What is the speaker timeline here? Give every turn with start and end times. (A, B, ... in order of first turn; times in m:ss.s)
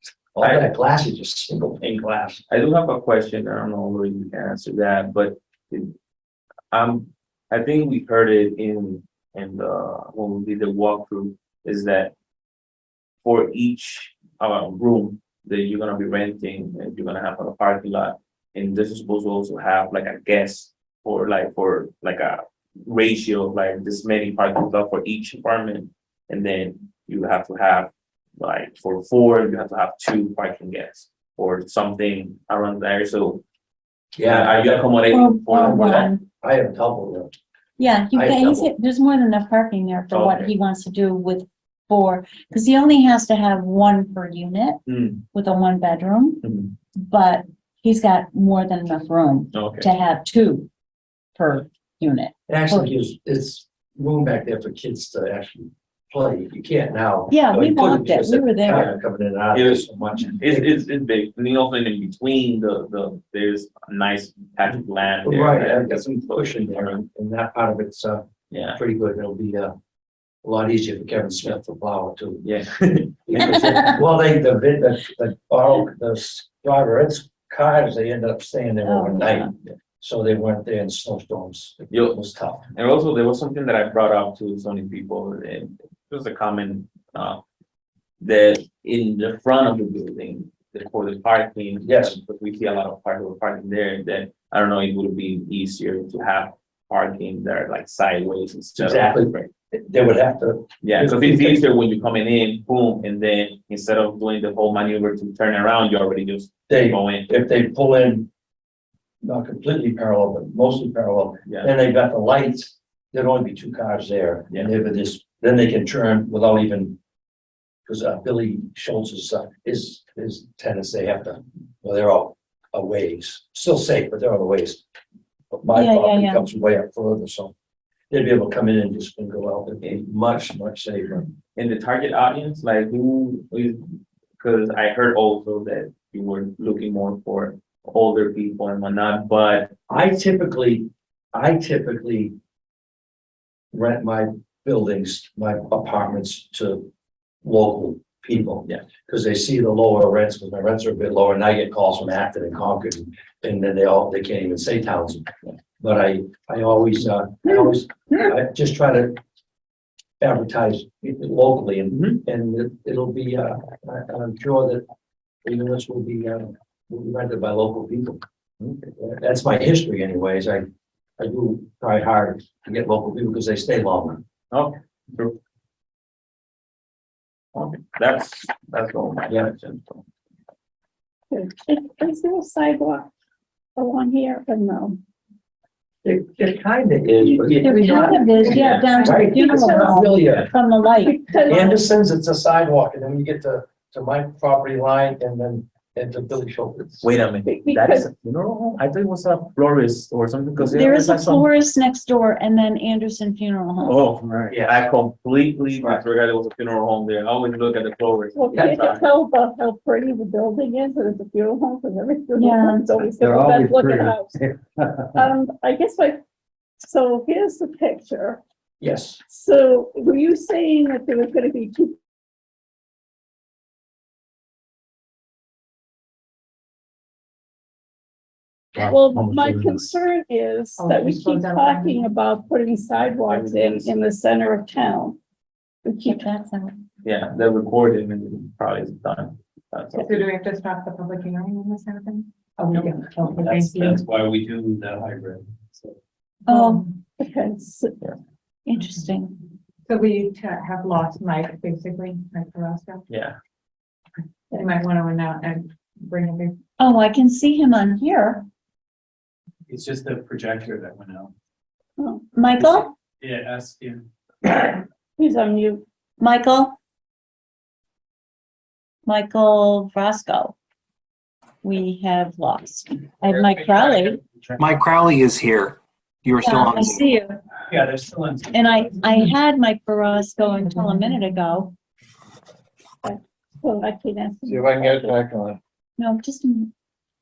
0:00.4-0:02.4 A
0:00.4-0:00.7 B
0:02.5-0:05.9 B
0:06.7-0:12.1 B
0:13.2-0:33.4 B
0:34.2-0:35.0 A
0:34.2-0:36.1 B
0:35.1-0:36.2 C
0:35.5-0:37.3 A
0:37.8-0:44.8 C
0:38.1-0:38.7 A
0:40.1-0:40.5 B
0:44.9-0:45.2 B
0:45.3-0:46.4 C
0:46.4-0:46.7 B
0:47.0-0:50.7 C
0:49.5-0:49.9 B
0:51.4-0:52.9 C
0:52.5-1:00.8 A
0:57.3-0:58.9 C
0:58.7-0:58.9 B
0:59.5-0:59.9 B
1:00.4-1:05.9 B
1:05.2-1:09.7 A
1:08.5-1:08.8 B
1:10.4-1:12.5 A
1:12.4-1:13.9 B
1:13.3-1:22.6 A
1:18.8-1:19.5 C
1:21.9-1:22.2 B
1:22.7-1:27.4 B
1:28.2-1:39.5 B
1:31.8-1:32.2 A
1:38.8-1:41.6 A
1:40.8-1:47.3 B
1:46.7-1:48.3 A
1:49.2-1:57.0 A
1:57.9-2:04.8 A
2:05.5-2:07.5 A
2:05.7-2:06.4 C
2:08.1-2:11.3 A
2:11.6-2:13.8 B
2:14.4-2:19.8 B
2:19.9-2:22.3 A
2:23.7-2:26.9 A
2:27.4-2:35.3 A
2:35.8-2:39.2 A
2:40.2-2:44.8 A
2:41.9-2:42.2 B
2:45.4-2:48.2 A
2:48.6-2:48.9 B
2:49.0-2:50.7 A
2:51.2-2:54.2 A
2:54.5-2:55.4 B
2:57.5-3:00.0 B
3:01.3-3:03.1 D
3:03.8-3:05.0 D
3:06.0-3:10.5 A
3:07.2-3:10.0 D
3:07.6-3:11.6 C
3:08.4-3:08.9 B
3:10.8-3:11.7 D
3:11.5-3:17.1 A
3:17.0-3:21.5 B
3:17.4-3:18.1 D
3:20.6-3:24.0 C
3:23.8-3:29.0 B
3:24.1-3:24.5 E
3:24.5-3:24.9 A
3:25.8-3:26.0 A
3:28.3-3:34.4 D
3:32.4-3:33.0 C
3:33.2-3:35.2 E
3:35.1-3:36.2 D
3:36.8-3:38.4 D
3:38.8-3:39.2 A
3:39.3-3:42.0 D
3:48.8-3:55.2 D
3:50.8-3:52.1 F
3:53.2-3:53.9 B
3:55.8-3:56.2 D
3:56.0-3:56.8 C
3:57.0-4:00.2 B
3:59.9-4:04.0 F
4:02.7-4:06.0 E
4:06.5-4:06.8 C
4:06.5-4:06.9 F
4:07.2-4:08.0 D
4:08.7-4:09.4 C
4:09.9-4:13.0 F
4:13.1-4:13.4 B
4:14.5-4:16.6 F
4:16.8-4:18.5 C
4:19.7-4:21.3 E
4:22.0-4:22.2 D
4:22.3-4:23.0 C
4:22.6-4:24.8 E
4:25.2-4:25.8 D
4:26.2-4:26.8 C
4:29.1-4:30.6 C
4:31.6-4:34.2 C
4:33.4-4:34.0 E
4:33.7-4:37.1 G
4:36.4-4:37.4 C
4:37.7-4:38.9 E
4:38.5-4:41.7 C
4:40.7-4:41.2 F
4:43.0-4:45.2 D
4:46.0-4:46.7 C